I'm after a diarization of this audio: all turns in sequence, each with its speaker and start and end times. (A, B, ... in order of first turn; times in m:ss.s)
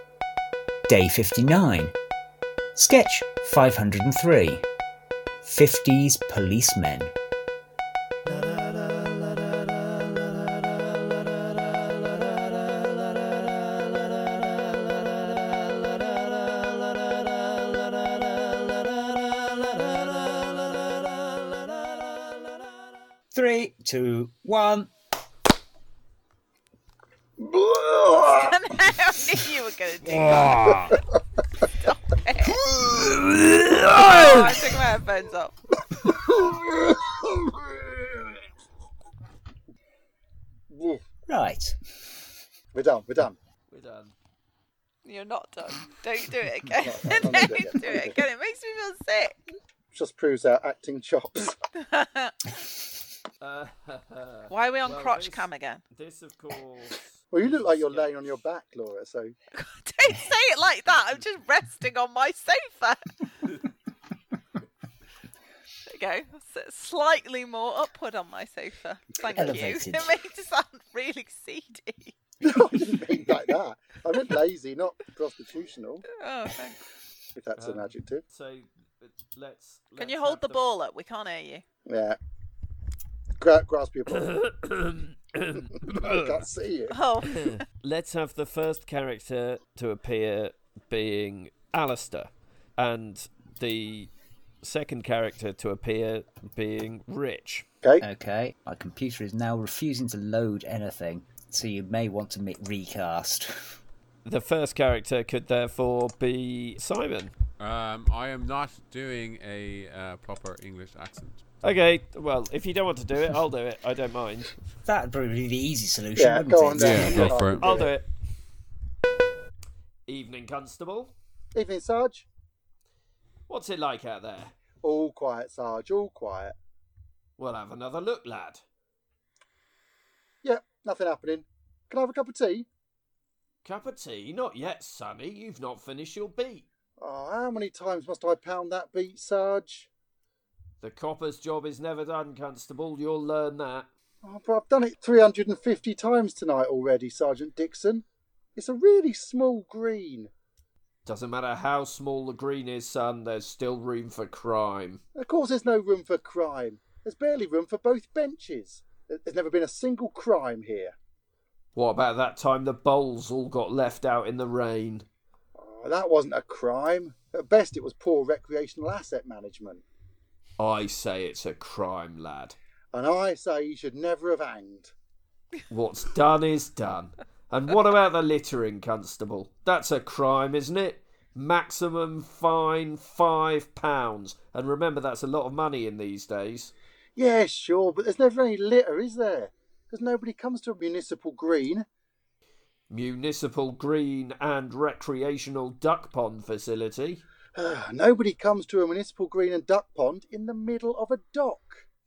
0:00.9-0:01.9 A
0:02.7-0:04.6 A
0:05.4-0:07.1 A
0:23.3-0:24.9 A
0:27.4-0:28.4 B
0:28.2-0:31.0 C
0:30.2-0:30.8 D
0:30.3-0:30.7 E
0:31.6-0:32.6 C
0:32.8-0:34.5 D
0:33.9-0:35.6 C
0:35.9-0:38.2 B
0:40.7-0:41.0 B
0:41.3-0:41.8 A
0:42.7-0:43.4 B
0:43.7-0:44.1 D
0:45.0-0:49.4 C
0:46.8-0:48.2 B
0:49.9-0:51.6 B
0:51.7-0:52.5 C
0:53.4-0:58.3 D
0:54.5-0:55.8 C
0:57.3-0:59.3 B
0:59.5-1:03.6 C
1:05.9-1:12.1 C
1:09.3-1:10.2 A
1:12.4-1:16.1 B
1:16.2-1:16.8 C
1:17.3-1:18.2 B
1:17.6-1:20.6 D
1:20.0-1:21.6 C
1:21.8-1:22.2 B
1:23.4-1:24.3 B
1:24.1-1:26.4 D
1:25.9-1:27.0 B
1:26.9-1:27.6 C
1:27.4-1:34.1 D
1:34.6-1:37.6 D
1:38.0-1:43.8 A
1:44.2-1:47.3 D
1:47.6-1:51.4 E
1:51.6-1:54.5 D
1:54.8-1:57.4 A
1:56.2-1:57.9 B
1:56.8-1:57.7 E
1:57.1-1:58.1 D
2:00.0-2:01.1 D
2:01.5-2:02.2 B
2:03.5-2:04.5 D
2:04.8-2:06.6 B
2:07.4-2:08.6 D
2:10.4-2:12.7 B
2:13.6-2:16.6 D
2:17.0-2:19.9 B
2:20.8-2:23.9 D
2:24.2-2:28.0 B
2:28.6-2:30.3 B
2:31.0-2:35.0 D
2:35.2-2:40.9 B
2:41.7-2:45.0 D
2:45.6-2:49.8 B
2:50.6-2:52.6 D
2:52.9-2:54.9 B
2:55.7-3:06.7 D
3:07.2-3:11.8 B
3:12.9-3:17.2 D
3:17.5-3:21.8 B